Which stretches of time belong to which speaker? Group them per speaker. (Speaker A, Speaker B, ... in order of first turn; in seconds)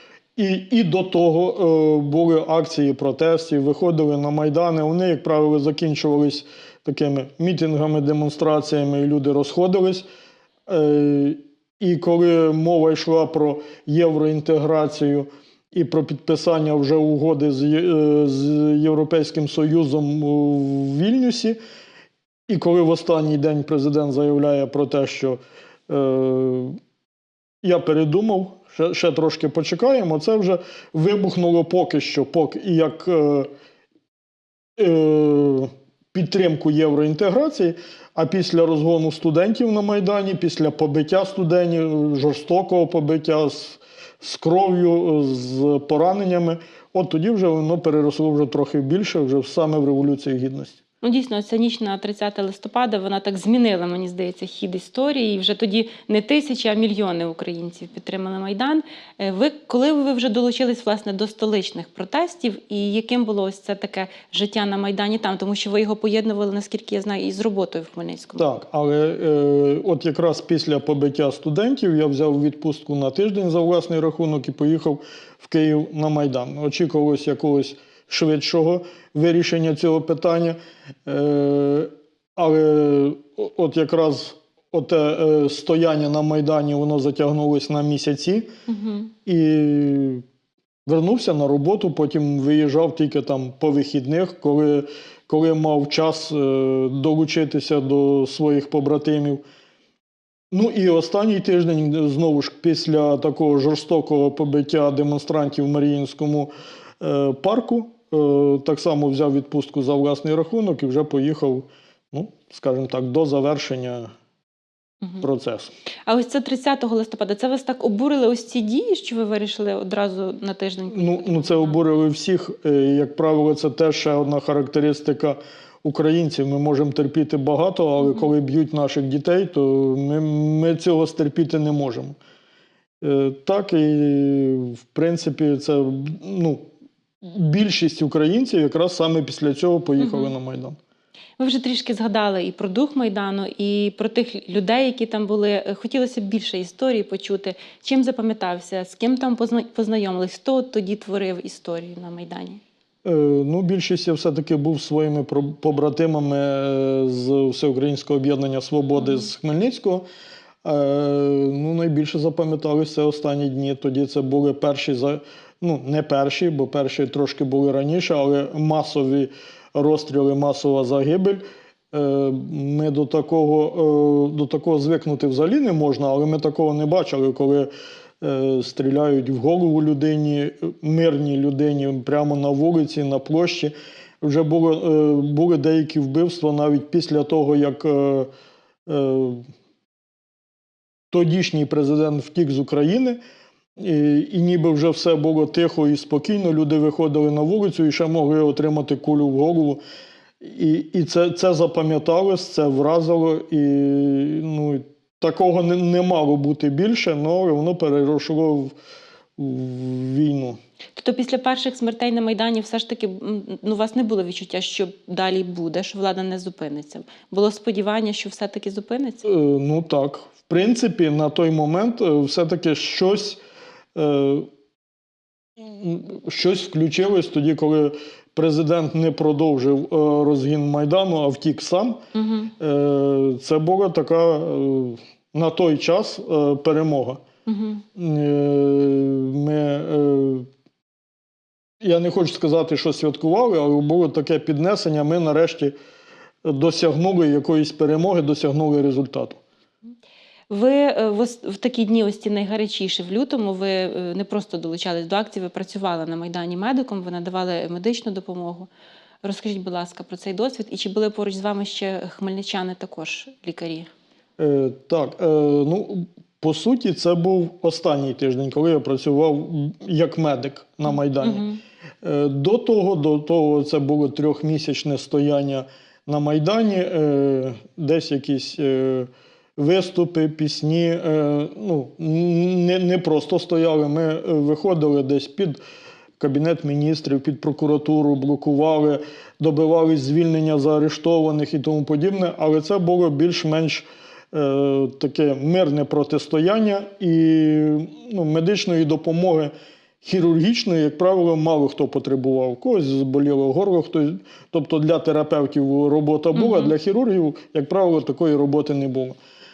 Speaker A: 0.4-10.1, 10.7-21.6, 22.5-25.4, 25.9-26.8, 27.6-33.5, 34.8-50.8, 68.4-88.5, 89.3-90.2, 90.9-99.4, 100.5-114.1, 115.2-115.7, 120.9-132.2, 133.0-136.6, 137.2-140.8, 153.0-160.1, 160.6-177.7, 178.2-188.3, 188.9-189.4, 191.1-193.2, 193.8-199.8, 200.4-208.7, 209.4-210.6, 219.2-223.4, 223.9-224.5, 225.6-232.0, 232.6-237.2, 238.0-240.5, 241.8-245.7, 246.4-249.4, 264.4-271.5, 272.0-285.6, 286.2-309.2
Speaker B: 51.0-68.5, 88.7-89.1, 116.1-121.8, 128.0-128.3, 140.0-140.3, 141.4-152.6, 159.0-159.3, 211.0-219.2, 232.1-232.5, 237.5-237.8, 250.5-258.7, 259.2-263.9, 270.9-271.6, 306.4-306.7